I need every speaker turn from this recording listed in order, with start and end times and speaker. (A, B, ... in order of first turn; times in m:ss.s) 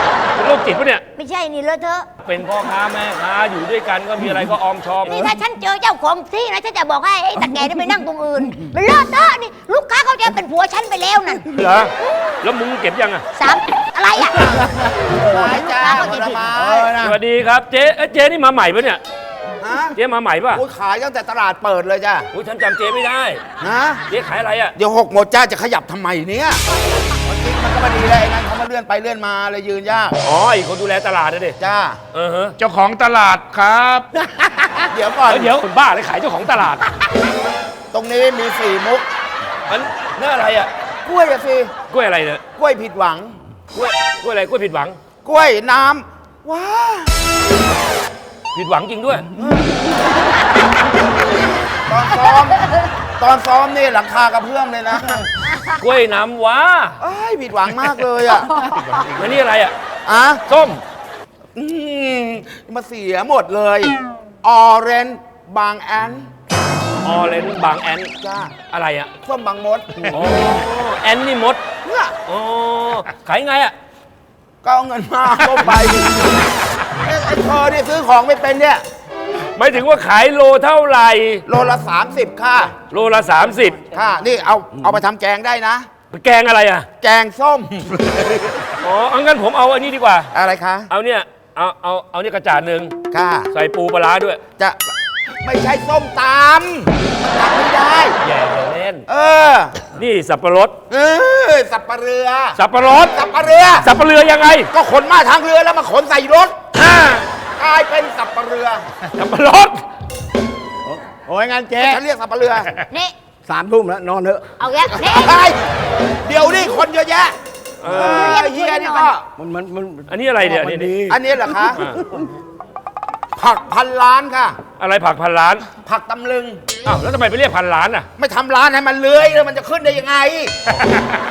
0:00.4-0:01.0 A
0:01.2-0:02.1 B
0:02.2-0:05.3 A
0:05.0-0:11.4 B
0:11.5-0:13.2 A
0:13.3-0:14.7 B
0:15.2-0:17.0 C
0:15.5-0:16.6 B
0:16.6-0:17.2 D
0:17.0-0:19.0 A
0:19.6-0:20.0 C
0:19.9-0:20.6 A
0:20.5-0:22.3 C
0:22.3-0:23.4 A
0:23.6-0:24.0 C
0:24.1-0:24.7 A
0:24.8-0:26.6 C
0:27.2-0:30.1 C
0:30.2-0:31.5 A
0:31.6-0:32.0 C
0:32.1-0:32.6 A
0:32.6-0:34.1 E
0:34.9-0:35.5 C
0:35.2-0:36.9 A
0:37.9-0:39.0 C
0:39.7-0:40.7 A
0:41.0-0:41.7 C
0:41.9-0:42.4 A
0:42.6-0:43.3 C
0:43.7-0:45.0 A
0:45.2-0:47.1 C
0:48.5-0:49.3 A
0:51.8-0:52.6 C
0:53.2-0:55.2 C
0:55.8-0:57.0 A
0:57.0-0:58.6 C
0:58.3-0:59.4 E
0:59.2-0:59.7 A
1:00.0-1:00.4 C
1:00.5-1:00.8 A
1:01.6-1:06.3 C
1:07.0-1:08.1 A
1:08.2-1:08.5 C
1:08.7-1:09.1 A
1:09.2-1:10.4 C
1:10.1-1:11.6 A
1:11.9-1:12.1 C
1:12.3-1:13.7 A
1:14.6-1:16.5 C
1:17.0-1:18.8 C
1:19.6-1:21.4 A
1:21.4-1:22.7 C
1:22.9-1:23.8 A
1:23.9-1:25.9 C
1:26.1-1:26.8 A
1:27.0-1:28.5 C
1:28.8-1:30.3 A
1:30.3-1:30.9 C
1:30.9-1:32.9 A
1:33.1-1:33.5 C
1:33.5-1:34.4 A
1:35.4-1:38.2 C
1:38.2-1:39.0 A
1:39.1-1:39.8 C
1:40.0-1:40.8 A
1:40.9-1:42.6 C
1:42.6-1:43.1 A
1:43.1-1:43.9 C
1:43.8-1:44.7 A
1:44.7-1:46.6 C
1:46.8-1:47.2 A
1:47.6-1:48.9 C
1:49.2-1:49.8 A
1:50.9-1:52.0 D
1:51.8-1:52.7 C
1:53.5-1:54.4 D
1:54.6-1:55.4 B
1:54.8-1:55.6 C
1:56.2-1:57.3 C
1:57.8-1:58.4 A
1:57.9-1:59.2 C
1:58.1-1:59.1 B
1:59.4-2:01.2 D
2:00.1-2:00.9 A
2:01.1-2:01.8 C
2:01.8-2:02.2 D
2:03.4-2:04.6 C
2:04.8-2:05.6 A
2:05.8-2:06.6 C
2:06.8-2:08.1 A
2:08.2-2:10.6 C
2:10.7-2:11.0 A